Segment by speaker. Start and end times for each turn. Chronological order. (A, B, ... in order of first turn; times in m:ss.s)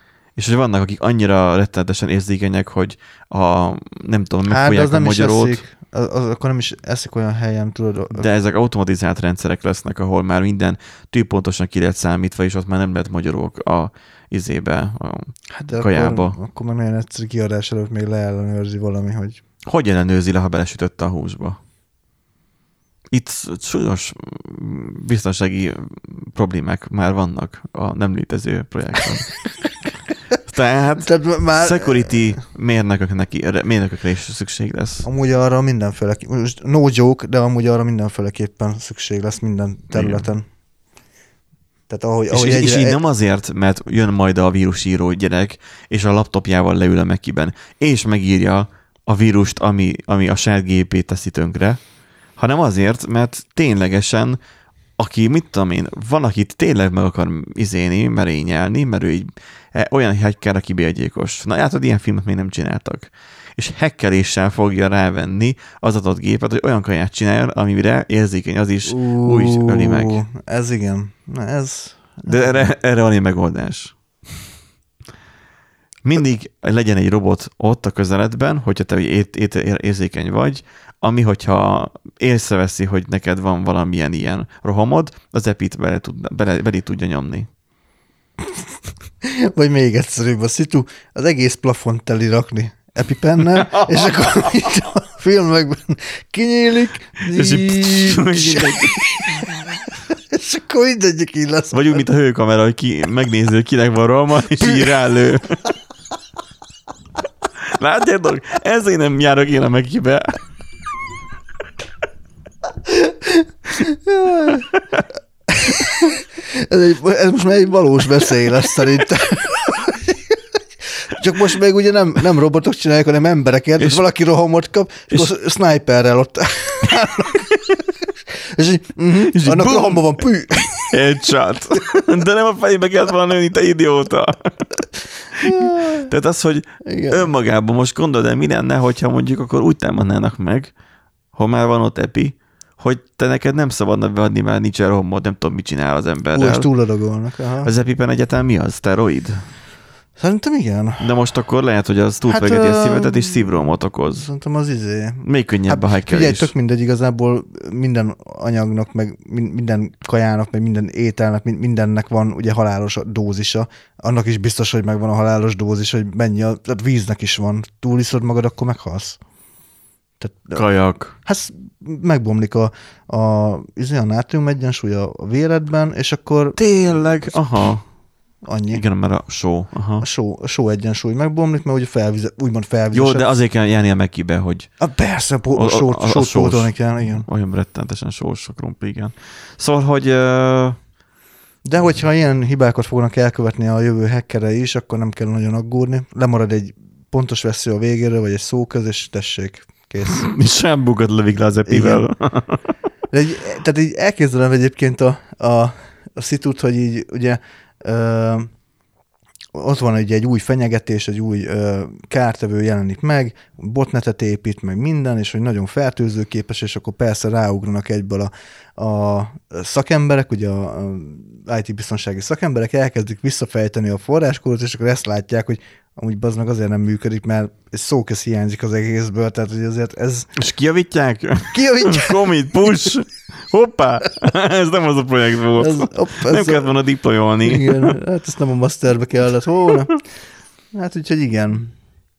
0:00.4-0:05.6 A
0:04.5-0:08.3 B
0:08.1-0:16.4 A
0:15.5-0:19.4 B
0:19.6-0:21.6 A
0:23.1-0:29.4 A
0:30.4-0:35.1 A
0:31.0-0:32.4 B
0:35.0-0:40.4 B
0:39.9-0:40.3 A
0:41.9-0:43.0 B
0:42.3-0:51.8 A
0:52.4-0:54.4 A
0:55.0-1:10.2 A
1:08.8-1:12.7 B
1:12.2-1:14.0 A
1:16.0-1:27.5 A
1:29.2-1:42.0 B
1:33.4-1:34.5 A
1:37.2-1:39.5 A
1:41.7-1:45.7 A
1:44.6-1:44.9 B
1:47.6-1:50.4 A
1:52.8-1:54.7 B
1:55.5-2:11.0 B
2:09.2-2:10.2 A
2:10.7-2:20.7 A
2:15.4-2:16.1 B
2:16.8-2:17.3 B
2:21.3-2:26.6 A
2:26.3-2:27.7 B
2:27.6-2:29.5 A
2:30.2-2:31.1 B
2:31.0-2:34.2 A
2:32.3-2:33.4 B
2:34.1-2:49.2 B
2:35.2-2:36.5 A
2:50.2-2:50.6 B
2:50.5-2:51.2 A
2:51.2-2:56.6 B
2:56.6-2:57.9 A
2:58.4-2:58.8 B
2:58.7-3:00.0 A
3:00.0-3:03.3 B
3:02.9-3:04.7 A
3:04.8-3:07.2 B
3:05.5-3:10.8 A
3:11.6-3:20.3 B
3:20.0-3:22.6 A
3:21.7-3:22.0 B
3:23.1-3:28.5 B
3:29.5-3:50.3 B
3:50.4-3:57.9 A
3:51.5-3:52.9 B
3:55.6-3:56.7 B
3:57.4-4:00.0 B
4:00.7-4:01.7 B